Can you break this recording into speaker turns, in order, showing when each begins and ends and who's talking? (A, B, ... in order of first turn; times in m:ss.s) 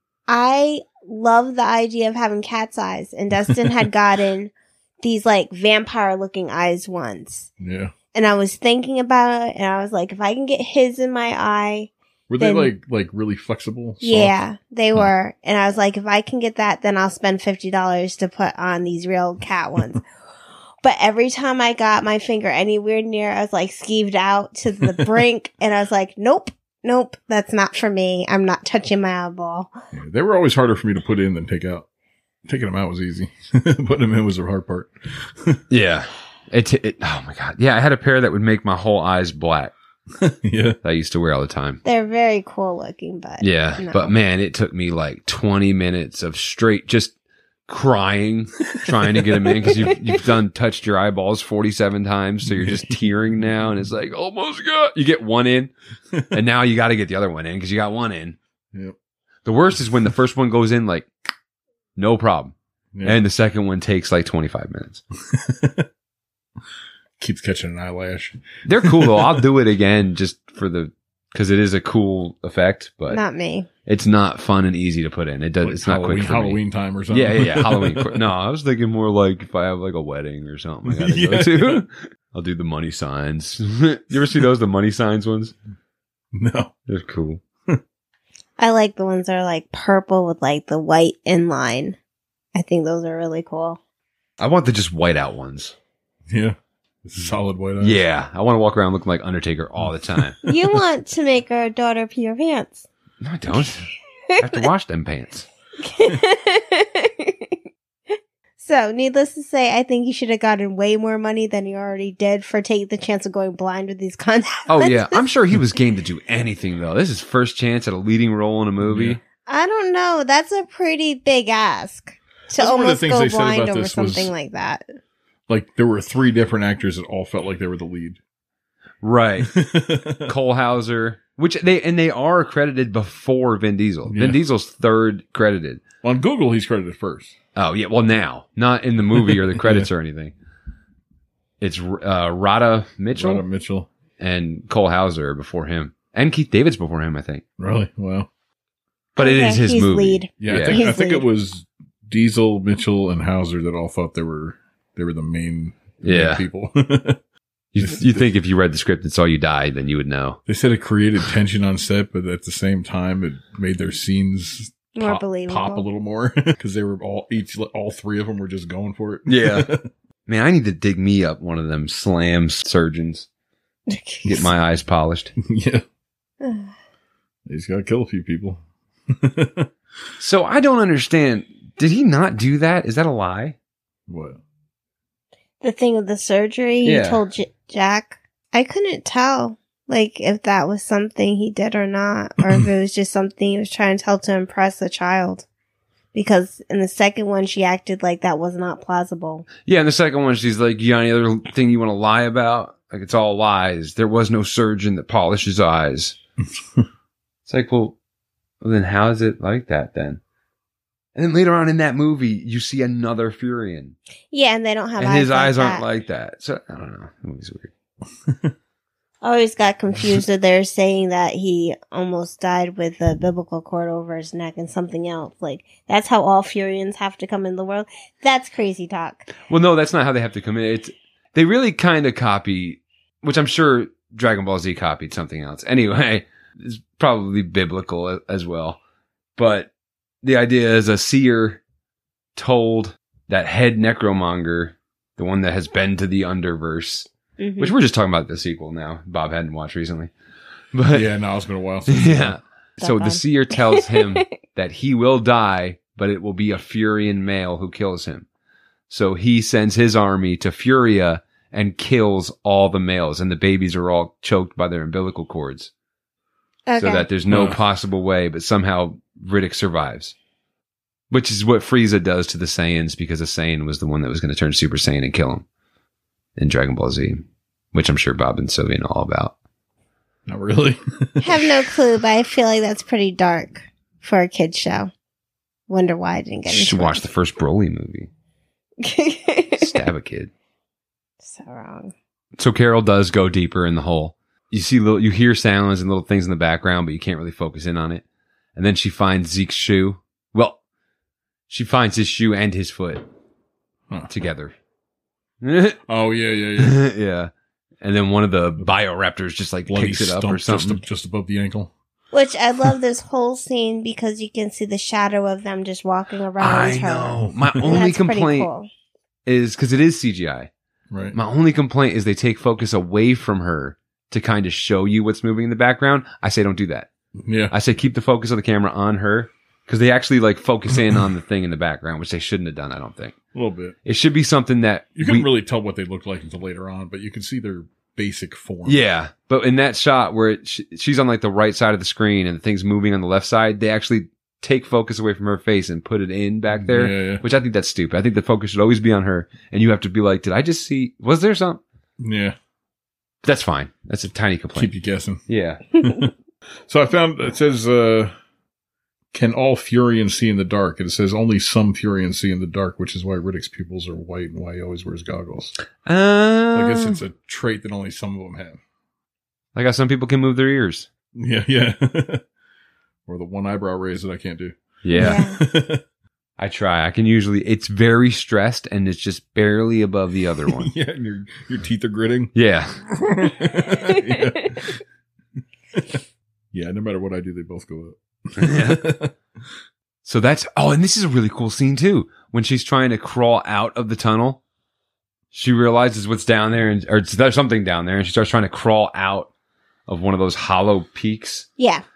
0:00.3-0:07.5 A
0:07.6-0:07.9 B
0:08.1-0:12.7 A
0:12.3-0:14.4 B
0:14.0-0:20.0 A
0:20.8-0:29.7 A
0:29.9-0:31.8 B
0:32.4-0:35.6 B
0:35.7-0:39.7 C
0:40.2-0:40.8 B
0:40.8-0:41.8 C
0:41.8-0:44.1 A
0:43.4-0:47.1 C
0:47.7-0:55.7 C
0:48.8-0:49.5 B
0:52.4-0:53.0 B
0:56.3-0:58.4 C
0:59.4-1:01.1 C
1:02.0-1:05.0 C
1:02.9-1:03.2 B
1:05.3-1:05.9 B
1:07.2-1:09.4 B
1:08.6-1:13.2 C
1:13.1-1:13.7 A
1:13.8-1:16.6 C
1:15.6-1:18.2 B
1:17.1-1:25.5 C
1:20.8-1:21.8 B
1:26.3-1:26.7 B
1:26.9-1:27.4 C
1:28.6-1:32.0 A
1:32.5-1:33.8 A
1:34.4-1:35.7 C
1:36.3-1:38.0 B
1:37.8-1:40.4 C
1:40.4-1:42.9 A
1:43.2-1:45.5 C
1:44.3-1:44.6 A
1:45.8-1:47.5 A
1:48.6-1:55.2 A
1:54.7-1:59.2 C
1:58.8-1:59.2 B
1:59.4-2:04.8 A
2:02.6-2:04.3 B
2:05.5-2:08.2 B
2:09.0-2:09.5 C
2:09.4-2:10.3 B
2:10.2-2:15.8 C
2:14.0-2:14.4 B
2:16.0-2:17.3 B
2:17.6-2:20.3 C
2:19.2-2:19.9 B
2:21.6-2:23.4 C
2:23.2-2:23.9 B
2:24.2-2:27.4 C
2:27.6-2:28.3 B
2:29.2-2:30.8 C
2:29.2-2:31.2 A
2:30.4-2:37.2 B
2:36.0-2:36.4 C
2:37.7-2:40.4 C
2:37.8-2:38.2 B
2:40.5-2:49.8 B
2:44.9-2:45.8 A
2:49.2-2:49.7 C
2:50.3-2:53.3 C
2:53.9-2:54.2 A
2:54.2-2:55.3 C
2:55.4-2:55.8 B
2:56.4-2:56.7 A
2:57.4-2:59.7 B
3:00.2-3:03.5 C
3:04.1-3:04.4 B
3:05.6-3:15.4 A
3:06.8-3:07.2 C
3:16.1-3:19.5 A
3:19.6-3:26.2 C
3:27.4-3:27.9 C
3:28.6-3:30.2 C
3:31.1-3:34.0 C
3:34.3-3:35.8 A
3:35.0-3:37.7 C
3:39.2-3:49.3 A
3:49.5-3:58.8 C
3:59.4-3:59.7 C
4:00.2-4:01.6 C
4:02.4-4:07.1 C
4:07.4-4:07.7 A
4:07.6-4:10.1 C
4:10.7-4:11.1 C
4:10.9-4:12.4 B
4:11.9-4:18.2 C
4:12.8-4:14.2 A
4:18.9-4:25.7 C
4:26.7-4:27.0 A
4:26.8-4:30.1 C
4:27.3-4:27.6 B
4:31.1-4:35.4 C
4:36.4-4:39.3 C
4:40.2-4:41.7 B
4:41.2-4:44.9 A
4:45.7-4:47.0 A
4:46.5-4:48.1 C
4:48.8-4:49.8 A
4:49.6-4:50.3 C
4:51.2-4:51.9 A
4:52.4-4:58.0 C
4:58.6-5:00.6 C
5:01.5-5:03.0 C
5:04.1-5:04.5 C
5:05.4-5:05.8 C
5:05.8-5:06.8 B
5:06.6-5:10.8 C
5:09.7-5:11.7 B
5:12.1-5:18.7 A
5:16.4-5:18.5 C
5:17.3-5:17.7 B
5:19.2-5:20.5 C
5:20.9-5:21.2 B
5:21.1-5:26.9 C
5:27.2-5:27.5 B
5:27.5-5:33.1 C
5:33.3-5:33.8 B
5:33.8-5:35.3 C
5:34.9-5:38.8 B
5:38.6-5:51.6 C
5:46.5-5:47.2 B
5:52.0-5:52.4 B
5:53.2-5:54.7 C
5:54.6-5:55.2 B
5:55.3-5:55.6 C
5:55.8-5:56.1 B
5:56.7-5:58.1 B
5:59.1-6:05.5 B
6:05.8-6:07.0 C
6:06.5-6:08.6 B
6:09.5-6:10.9 C
6:11.2-6:12.2 B
6:13.0-6:15.8 B
6:14.8-6:15.2 C
6:14.9-6:15.4 A
6:16.4-6:20.7 C
6:20.5-6:22.3 B
6:22.3-6:22.8 C
6:22.9-6:24.8 B
6:25.7-6:26.0 B
6:26.5-6:29.1 B
6:28.4-6:28.9 C
6:30.0-6:34.4 C
6:35.3-6:39.3 C
6:39.9-6:41.5 C
6:41.6-6:41.8 A